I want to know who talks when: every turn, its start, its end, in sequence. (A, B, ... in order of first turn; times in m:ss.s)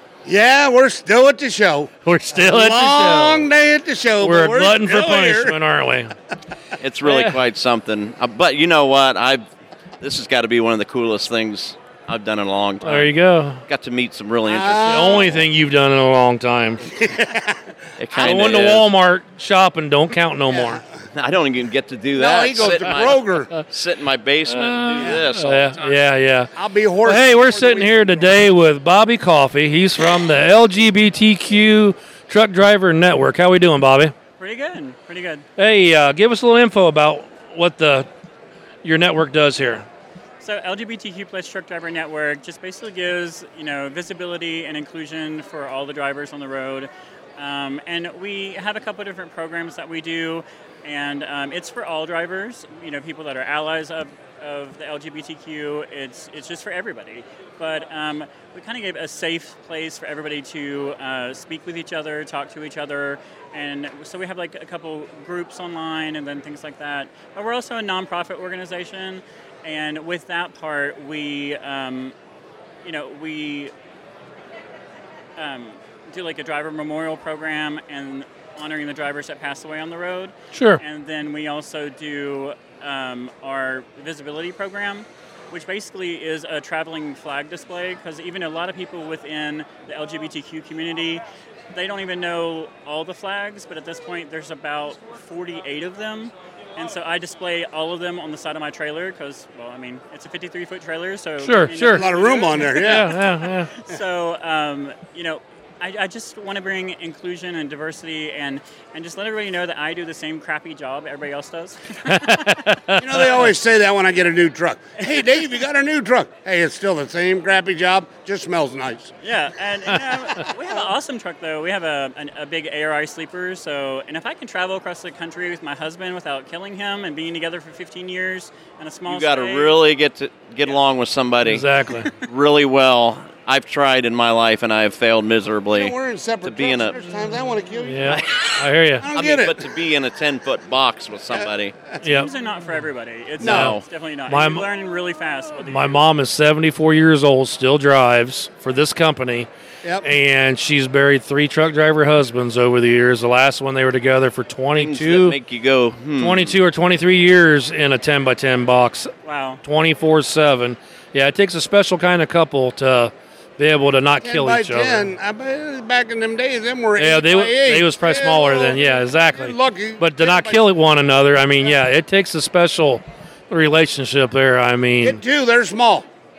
0:00.2-0:05.6 A
0:02.0-0:03.5 B
0:04.2-0:06.1 B
0:06.8-0:09.4 C
0:07.0-0:07.4 B
0:10.0-0:15.3 C
0:12.8-0:13.6 B
0:14.4-0:15.4 A
0:14.8-0:16.9 B
0:16.8-0:17.7 A
0:18.0-0:18.9 C
0:18.1-0:20.8 B
0:20.5-0:20.9 A
0:21.1-0:25.8 C
0:22.1-0:23.5 A
0:24.5-0:34.1 B
0:25.0-0:25.2 A
0:26.5-0:28.4 A
0:34.4-0:35.4 D
0:35.6-0:38.1 B
0:38.8-0:39.8 B
0:40.4-1:12.1 D
1:12.8-1:13.7 D
1:15.4-1:52.7 D
1:20.5-1:20.8 B
1:41.4-1:42.1 B
1:41.9-1:43.2 A
1:42.7-1:43.7 B
1:52.1-1:53.1 B
1:53.0-1:59.1 A
1:55.0-1:55.3 D
1:59.2-2:09.9 D
2:00.4-2:00.8 A
2:09.1-2:11.6 C
2:10.6-2:10.8 D
2:11.4-2:12.1 B
2:11.9-2:12.2 D
2:12.3-2:17.0 C
2:15.7-2:18.3 A
2:17.8-2:19.1 B
2:18.1-2:21.7 C
2:19.0-2:19.7 A
2:21.3-2:22.1 A
2:22.0-2:26.1 D
2:22.0-2:22.3 B
2:23.4-2:23.7 A
2:23.4-2:23.7 B
2:23.4-2:23.8 C
2:24.2-2:24.7 B
2:25.6-2:29.5 B
2:29.8-2:30.1 A
2:30.0-2:35.4 B
2:34.7-2:36.6 C
2:36.2-2:45.1 B
2:39.2-2:39.6 D
2:44.2-2:50.7 A
2:47.0-2:55.2 B
2:55.0-2:56.1 A